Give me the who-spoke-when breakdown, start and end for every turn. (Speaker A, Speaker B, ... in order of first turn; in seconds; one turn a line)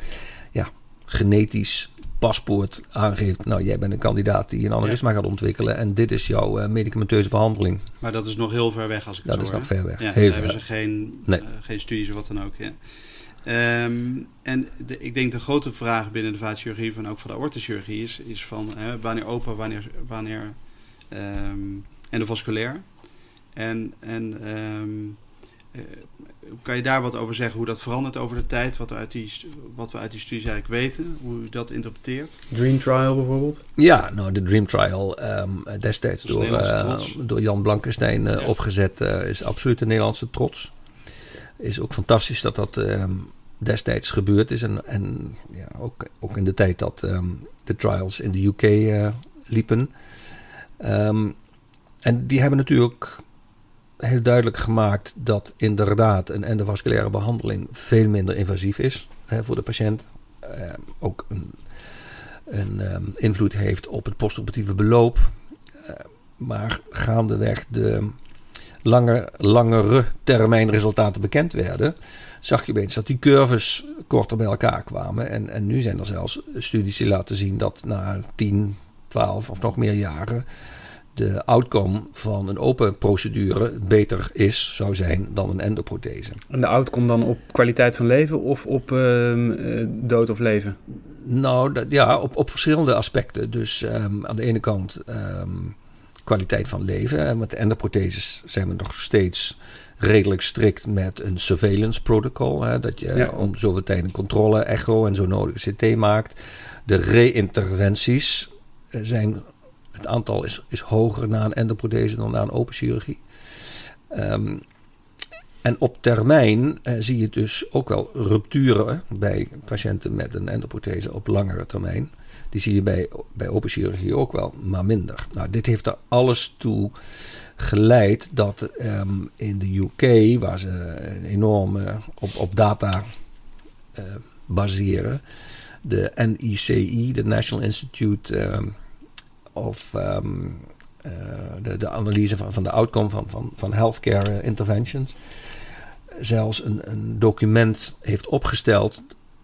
Speaker A: 0.5-7.8
Speaker B: 8.0-12.8
Speaker A: 9.2-10.6
Speaker B: 13.4-25.2
Speaker B: 25.7-32.4
Speaker C: 32.5-33.6
Speaker A: 33.8-40.7
Speaker B: 36.2-37.1
Speaker A: 41.6-49.9
Speaker A: 50.8-51.4
Speaker A: 52.0-53.2
Speaker A: 54.0-61.6
Speaker A: 62.5-68.2
Speaker A: 68.8-80.5
Speaker A: 81.1-86.4
Speaker C: 86.5-90.8
Speaker A: 91.2-113.2
Speaker A: 114.1-114.6
Speaker A: 115.6-127.0
Speaker A: 127.5-133.1
Speaker A: 133.9-135.2
Speaker A: 135.8-138.8
Speaker A: 139.5-145.2
Speaker A: 146.2-149.1